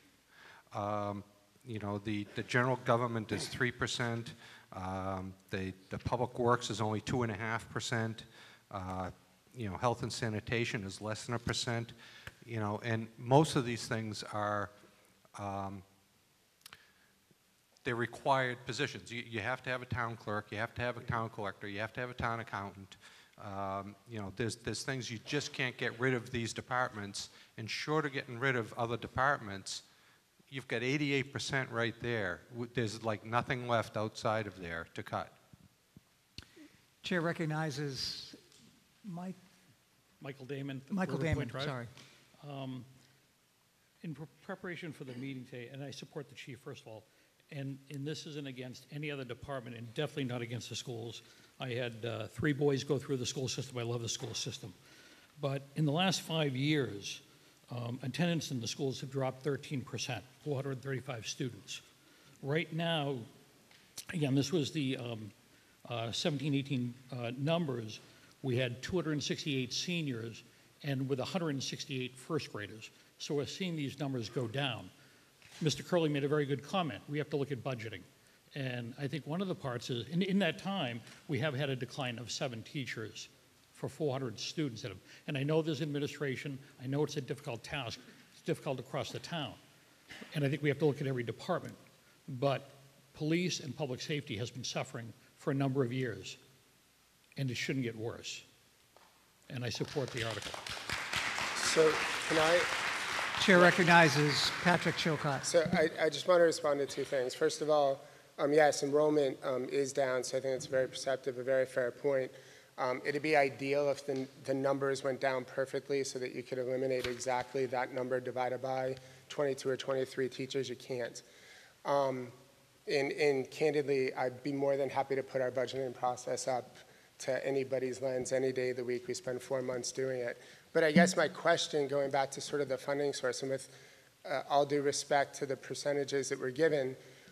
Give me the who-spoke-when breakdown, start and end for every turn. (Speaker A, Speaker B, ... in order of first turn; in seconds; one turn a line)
Speaker A: 0.7-14.7
Speaker A: 15.3-15.8
Speaker A: 17.8-29.8
Speaker A: 30.5-35.3
Speaker B: 37.0-38.4
Speaker B: 39.0-39.4
Speaker C: 40.2-41.8
Speaker B: 40.9-41.9
Speaker C: 42.4-42.9
Speaker C: 44.0-54.8
Speaker C: 55.4-61.8
Speaker C: 62.4-63.3
Speaker C: 64.1-74.9
Speaker C: 75.6-89.6
Speaker C: 90.3-96.4
Speaker C: 97.3-98.4
Speaker C: 99.5-100.6
Speaker D: 101.5-102.7
Speaker B: 103.4-105.4
Speaker D: 105.4-121.2
Speaker D: 121.8-122.3
Speaker D: 122.9-133.7
Speaker D: 134.2-137.0